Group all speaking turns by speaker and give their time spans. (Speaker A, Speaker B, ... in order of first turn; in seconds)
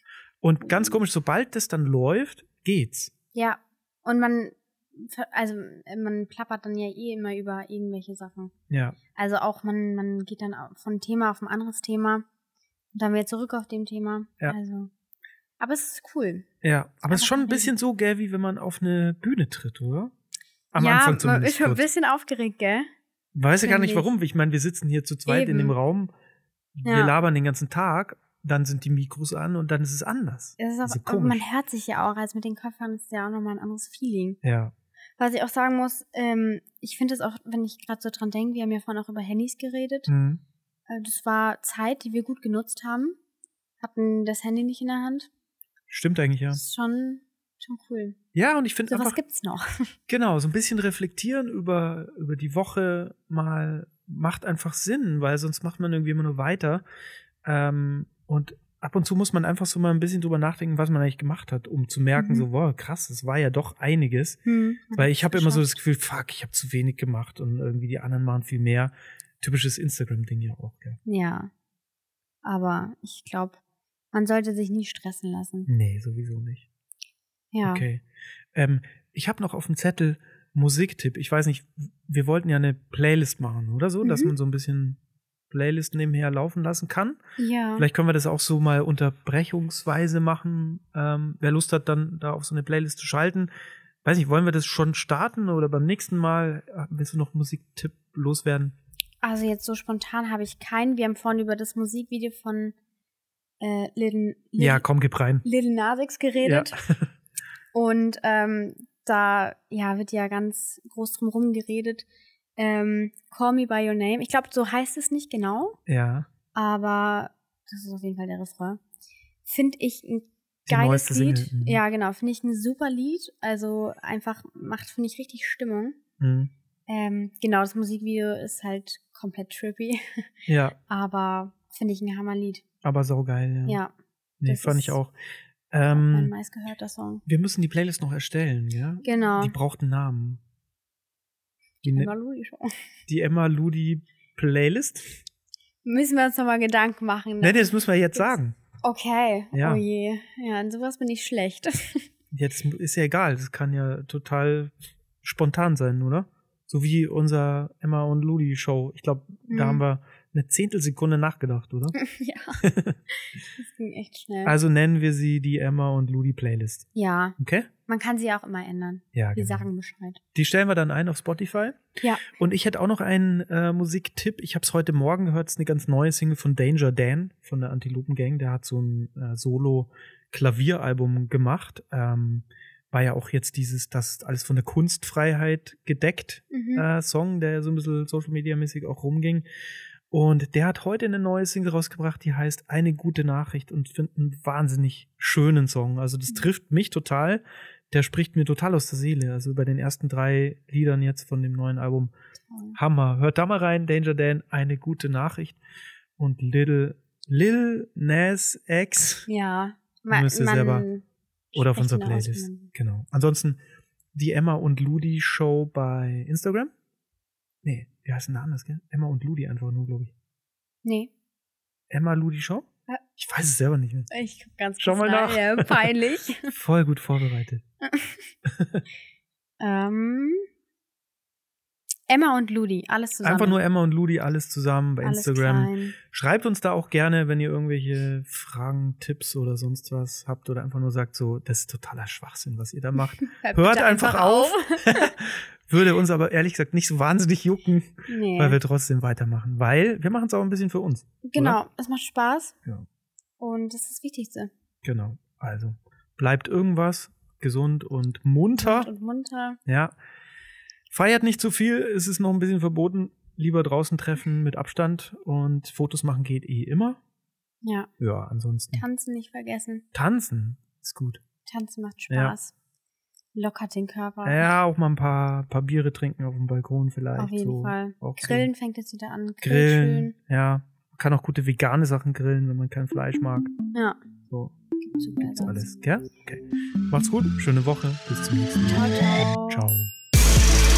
Speaker A: 0.4-3.1, 8.7-9.0, 16.6-20.1, 20.7-21.8, 23.3-26.1, 26.8-31.4, 34.4-34.7, 40.1-40.4, 45.9-46.6, 48.3-49.2, 50.1-56.8, 57.4-64.4, 65.0-71.0, 75.7-76.7, 77.6-87.2, 87.8-93.5, 94.0-98.8, 104.6-105.5, 106.4-107.1, 115.9-116.3, 120.7-121.8, 126.2-126.5, 130.5-130.8, 132.8-133.8, 134.4-136.3, 137.3-140.4, 141.8-142.1, 143.1-145.2, 147.4-148.6, 149.5-149.8, 152.3-162.0, 162.6-163.0, 164.4-166.9, 167.4-167.7, 169.1-169.7, 170.3-189.4, 190.1-202.1, 202.8-205.6, 206.2-209.3, 210.1-210.9, 211.6-213.6, 214.1-216.7, 217.6-220.1, 221.9-224.1, 224.8-225.9, 226.5-227.6, 228.5-228.8, 233.2-251.6, 254.8-258.9, 259.7-259.9, 260.9-267.0, 268.0-268.8, 269.9-271.2, 272.1-272.4, 274.2-278.5, 279.4-283.5, 284.3-284.6, 285.2-289.9
Speaker B: 0.6-1.0, 3.3-8.5, 9.2-12.3, 12.9-14.9, 15.6-16.5, 17.1-17.7, 20.8-22.9, 23.6-24.1, 25.3-25.8, 26.9-27.2, 30.6-34.4, 35.2-40.1, 40.9-43.2, 43.8-45.3, 46.5-48.2, 48.9-50.0, 62.1-62.5, 64.5-65.7, 71.1-71.5, 72.4-73.6, 74.1-75.7, 77.5-77.8, 84.0-84.3, 87.4-87.9, 99.2-102.8, 103.6-104.8, 105.5-106.7, 107.7-115.8, 116.5-118.8, 119.5-126.0, 126.9-130.0, 130.9-132.6, 133.7-133.9, 134.4-135.0, 135.9-137.2, 139.0-139.6, 141.8-142.8, 145.8-152.1, 159.5-159.8, 161.9-162.6, 163.1-164.5, 166.9-170.2, 186.5-186.9, 202.5-202.8, 209.3-212.7, 220.8-221.1, 224.1-226.5, 227.8-228.3, 229.6-230.4, 232.1-233.6, 235.0-236.0, 243.2-245.2, 248.1-248.6, 251.2-252.5, 253.4-254.5, 258.6-259.6, 267.6-267.9, 268.7-269.8, 271.5-272.5, 273.4-274.5, 277.2-280.1, 284.9-285.6, 288.7-289.6